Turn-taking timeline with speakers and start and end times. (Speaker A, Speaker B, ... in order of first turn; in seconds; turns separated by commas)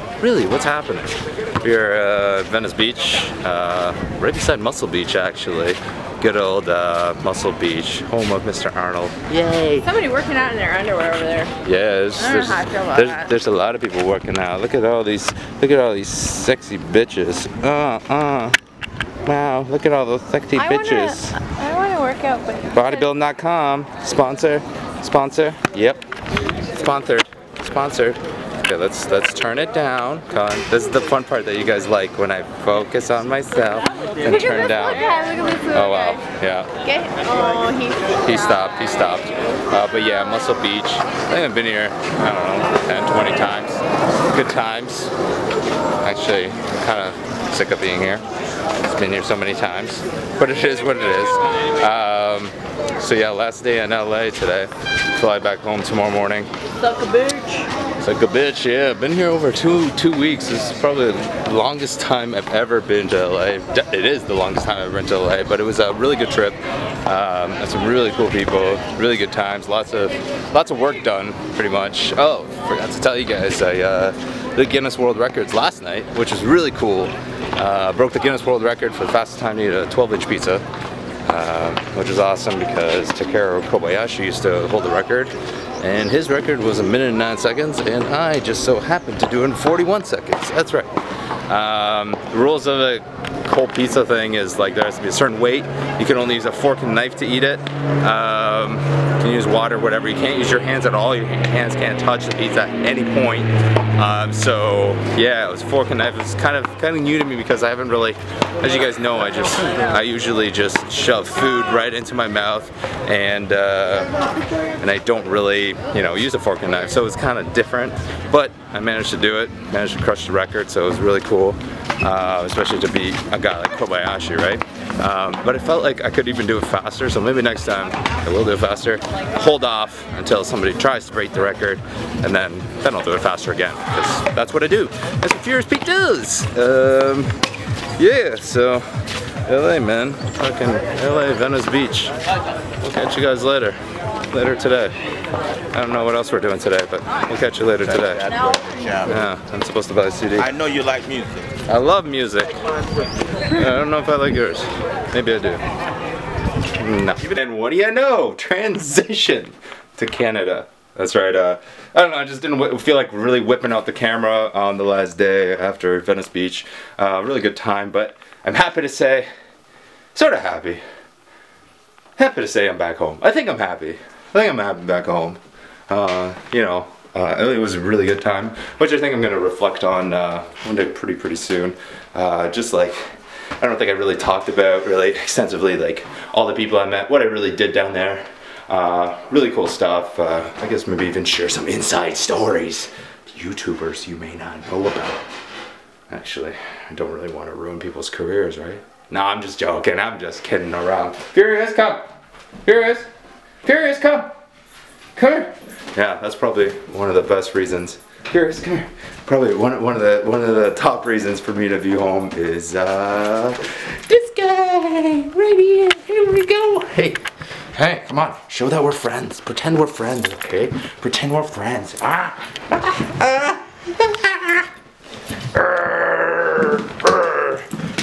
Speaker A: 0.2-9.9, Speaker B: 9.8-11.5, Speaker A: 11.6-18.6, Speaker B: 12.2-13.3, Speaker A: 19.2-21.4, Speaker B: 20.6-23.0, Speaker A: 22.7-26.0, Speaker A: 26.7-35.1, Speaker B: 34.3-36.2, Speaker A: 35.7-36.7, Speaker B: 36.8-38.3, Speaker A: 38.2-45.1, Speaker A: 46.0-48.2, Speaker A: 48.8-56.5, Speaker B: 56.9-57.7, Speaker A: 58.0-80.6, Speaker A: 81.2-90.9, Speaker A: 91.5-114.1, Speaker A: 114.8-137.3, Speaker A: 138.0-138.8, Speaker A: 139.4-142.1, Speaker A: 142.8-143.8, Speaker A: 144.3-144.9, Speaker A: 145.7-148.4, Speaker C: 148.2-149.1, Speaker A: 149.0-150.6, Speaker C: 150.4-151.5, Speaker A: 151.7-152.5, Speaker A: 153.5-155.6, Speaker A: 156.7-169.3, Speaker A: 170.1-170.8, Speaker A: 172.2-183.0, Speaker A: 183.6-195.2, Speaker A: 196.1-202.1, Speaker A: 202.6-203.1, Speaker A: 203.6-204.3, Speaker A: 205.2-224.7, Speaker A: 225.5-227.7